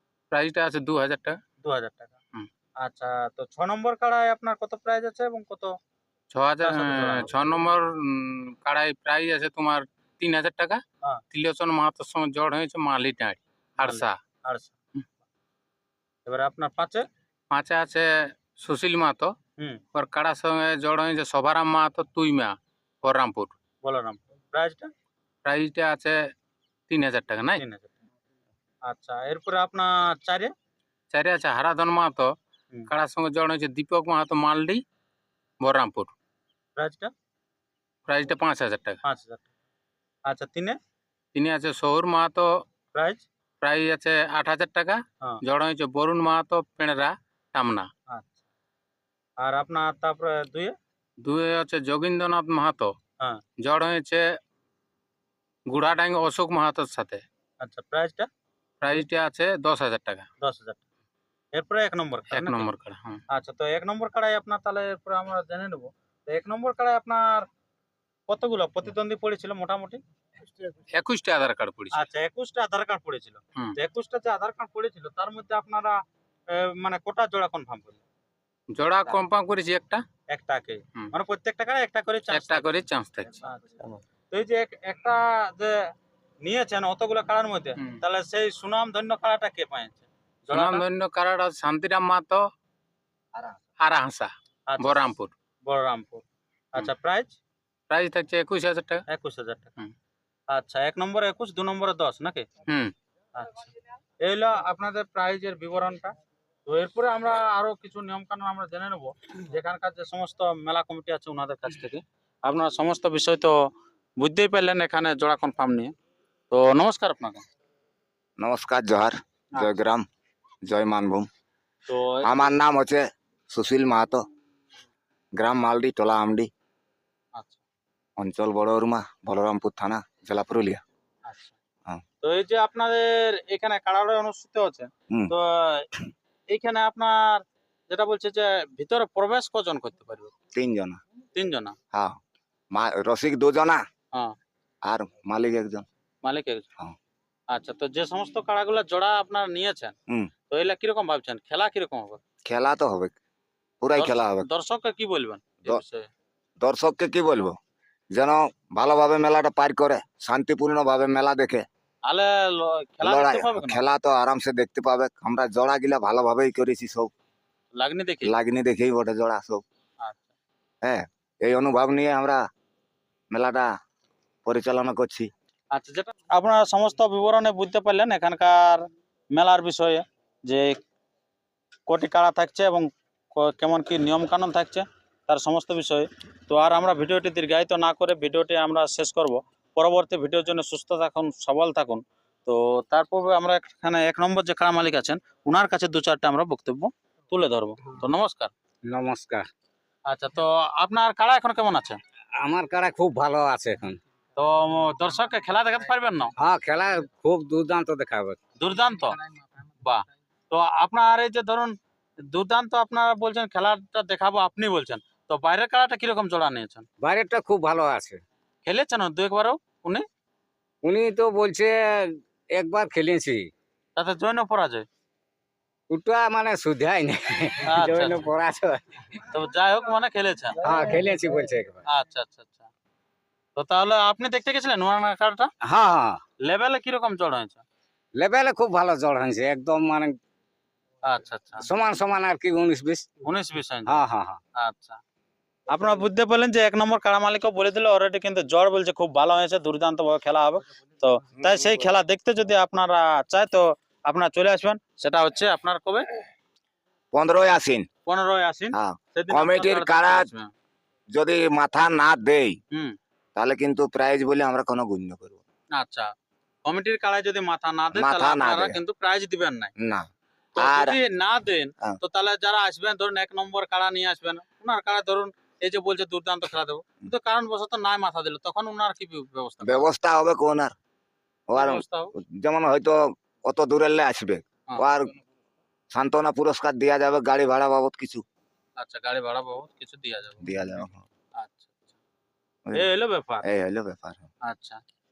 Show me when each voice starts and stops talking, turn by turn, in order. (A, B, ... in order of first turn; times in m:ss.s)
0:00.3-0:01.4 A
0:01.6-0:02.1 B
0:02.8-0:05.8 B
0:06.3-0:14.2 A
0:06.6-0:07.5 B
0:13.8-0:14.7 B
0:16.3-0:17.0 B
0:17.5-0:19.3 A
0:19.9-0:23.5 A
0:23.8-0:24.9 B
0:25.4-0:26.3 A
0:26.9-0:27.6 A
0:27.6-0:27.9 B
0:28.8-0:30.5 B
0:31.1-0:32.3 A
0:32.9-0:34.8 A
0:35.6-0:36.1 A
0:36.8-0:37.1 B
0:38.1-0:39.0 A
0:39.0-0:39.5 B
0:40.3-0:40.8 B
0:41.4-0:42.5 A
0:42.9-0:43.2 B
0:43.6-0:47.9 A
0:48.1-0:48.4 B
0:49.4-0:50.8 B
0:51.2-0:52.9 A
0:53.6-0:54.2 A
0:55.7-0:57.2 A
0:57.6-0:58.3 B
0:58.8-1:00.3 A
1:00.4-1:00.8 B
1:01.5-1:02.7 B
1:02.3-1:03.2 A
1:03.3-1:07.5 B
1:08.3-1:10.0 B
1:10.9-1:12.0 A
1:11.9-1:16.0 B
1:16.5-1:18.0 B
1:18.7-1:20.0 A
1:20.3-1:22.8 B
1:22.3-1:23.4 A
1:23.4-1:25.8 B
1:26.4-1:30.8 B
1:30.5-1:32.5 A
1:33.8-1:35.3 A
1:34.7-1:35.0 B
1:35.6-1:36.2 B
1:36.7-1:37.4 B
1:37.9-1:39.0 A
1:39.1-1:39.8 B
1:40.5-1:42.5 B
1:42.7-1:42.9 A
1:43.4-1:43.7 B
1:44.2-1:46.1 B
1:46.7-1:53.6 B
1:54.2-1:55.9 B
1:56.5-1:57.4 B
1:58.4-2:00.0 C
2:00.7-2:01.3 C
2:01.9-2:02.5 B
2:02.2-2:04.2 C
2:05.4-2:06.5 C
2:07.4-2:07.6 B
2:08.2-2:10.8 C
2:11.3-2:11.6 B
2:12.2-2:15.9 B
2:16.5-2:20.3 B
2:20.5-2:21.0 C
2:21.4-2:21.8 B
2:22.7-2:23.8 C
2:24.8-2:25.8 C
2:26.2-2:26.7 B
2:27.5-2:29.9 B
2:30.5-2:32.2 B
2:32.5-2:33.2 C
2:33.8-2:34.5 C
2:34.0-2:36.1 B
2:36.6-2:37.5 C
2:38.1-2:41.6 C
2:42.0-2:43.8 B
2:43.0-2:47.1 C
2:47.8-2:48.3 B
2:48.2-2:49.6 C
2:50.0-2:50.3 B
2:50.8-2:52.4 C
2:53.3-2:53.7 C
2:54.4-2:55.3 C
2:55.7-3:00.7 B
3:01.9-3:18.5 B
3:18.9-3:19.5 D
3:20.1-3:22.0 B
3:22.4-3:24.0 D
3:24.4-3:26.3 B
3:26.4-3:28.4 D
3:28.6-3:29.2 B
3:29.8-3:31.7 B
3:32.3-3:36.9 B
3:37.0-3:38.2 D
3:38.6-3:40.0 B
3:40.8-3:43.5 D
3:44.0-3:44.8 B
3:45.9-3:49.2 D
3:47.7-3:48.3 B
3:49.3-3:50.6 B
3:50.6-3:51.8 D
3:51.9-3:52.7 B
3:53.6-3:55.5 B
3:55.6-3:56.2 D
3:56.4-3:57.6 B
3:58.2-4:00.2 D
4:01.1-4:01.6 B
4:01.6-4:03.1 D
4:03.2-4:04.0 B
4:03.9-4:04.4 D
4:04.6-4:05.0 B
4:05.7-4:16.0 B
4:17.1-4:17.9 C
4:18.1-4:20.5 B
4:18.7-4:20.3 C
4:21.1-4:22.6 C
4:23.4-4:25.4 C
4:25.7-4:26.1 B
4:26.6-4:29.7 B
4:27.9-4:28.8 C
4:29.8-4:30.1 C
4:30.6-4:39.9 B
4:30.6-4:31.0 C
4:39.6-4:40.7 C
4:41.5-4:45.1 C
4:41.6-4:42.1 B
4:45.9-4:48.2 C
4:48.8-4:50.4 B
4:50.4-4:51.0 C
4:51.4-4:51.9 B
4:52.7-4:53.4 B
4:53.5-4:54.3 C
4:54.5-4:54.8 B